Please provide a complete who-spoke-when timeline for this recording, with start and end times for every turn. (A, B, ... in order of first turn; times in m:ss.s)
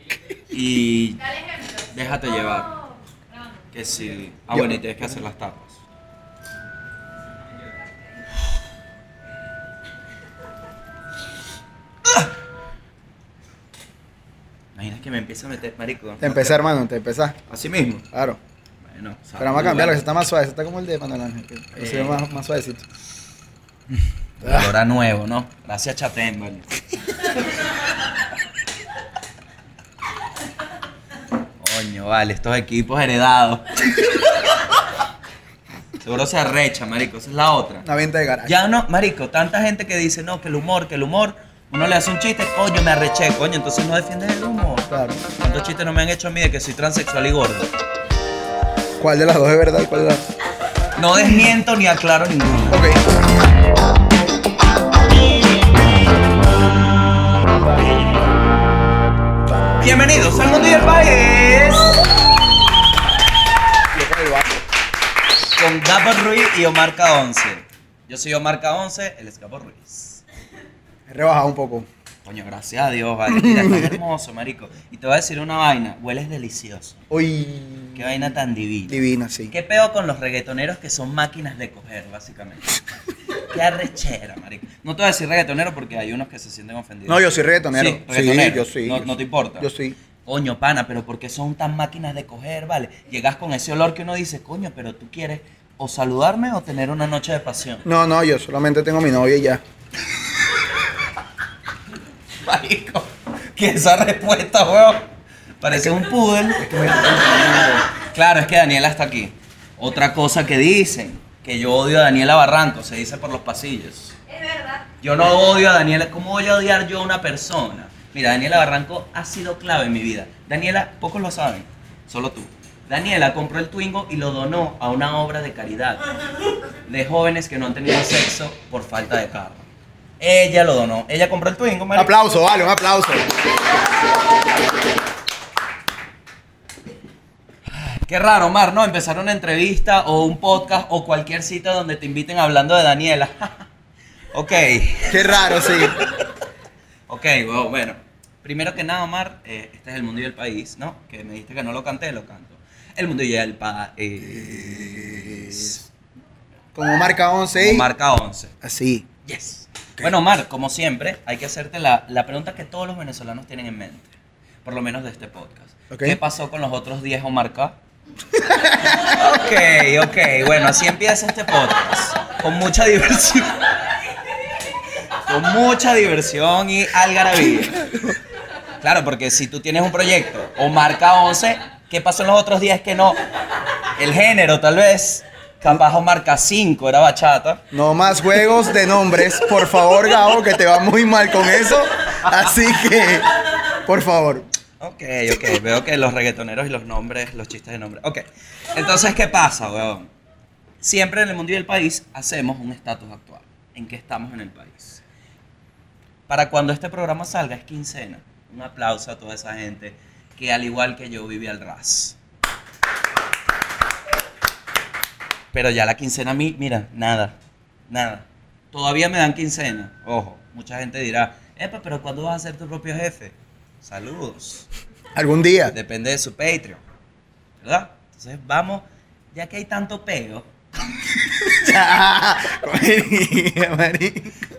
0:00.5-0:01.2 A
0:01.2-0:02.9 B
0:01.9-0:02.7 A
0:03.7-0:05.8 A
0:04.5-0:05.2 C
0:14.7-0:16.6 A
0:16.2-0:17.4 C
0:17.5-0:18.0 A
0:18.1-0:18.4 C
0:18.8-0:20.1 A
0:19.4-0:22.8 C
0:21.8-0:22.2 A
0:24.4-0:26.7 A
0:31.6-0:34.6 A
0:36.0-0:37.9 A
0:37.8-0:38.6 C
0:38.4-0:47.7 A
0:44.9-0:45.2 C
0:49.0-0:50.2 C
0:51.0-0:52.8 A
0:52.7-0:53.0 C
0:59.8-1:02.1 A
1:03.9-1:04.6 C
1:05.5-1:10.2 A
1:11.1-1:11.9 C
1:12.2-1:17.0 A
1:13.3-1:14.0 C
1:17.1-1:18.1 C
1:17.9-1:22.8 A
1:18.9-1:19.5 C
1:23.4-1:29.7 A
1:27.1-1:30.0 C
1:30.2-1:37.8 A
1:37.8-1:39.6 C
1:42.4-1:45.1 A
1:45.6-1:54.1 A
1:46.6-1:47.8 C
1:54.3-1:54.8 B
1:55.0-2:06.0 A
2:06.8-2:09.6 A
2:10.2-2:12.1 A
2:12.0-2:13.2 C
2:17.7-2:23.7 A
2:24.3-2:26.3 A
2:25.1-2:26.0 C
2:27.1-2:35.8 A
2:34.3-2:35.7 C
2:36.7-2:37.9 C
2:37.5-2:38.5 A
2:38.6-2:39.1 C
2:39.2-2:44.1 A
2:44.6-2:47.8 A
2:45.9-2:46.2 C
2:48.3-2:49.1 C
2:48.8-2:53.8 A
2:55.2-2:58.0 A
2:57.5-2:58.1 C
2:58.8-3:03.2 A
3:04.0-3:07.6 A
3:07.7-3:14.5 C
3:14.8-3:20.1 A
3:20.8-3:25.0 A
3:26.3-3:32.2 A
3:35.5-3:37.4 A
3:37.9-3:44.7 A
3:45.1-3:45.7 C
3:45.7-3:46.8 A
3:47.6-3:50.5 A
3:51.2-3:51.4 A
3:51.4-3:54.4 C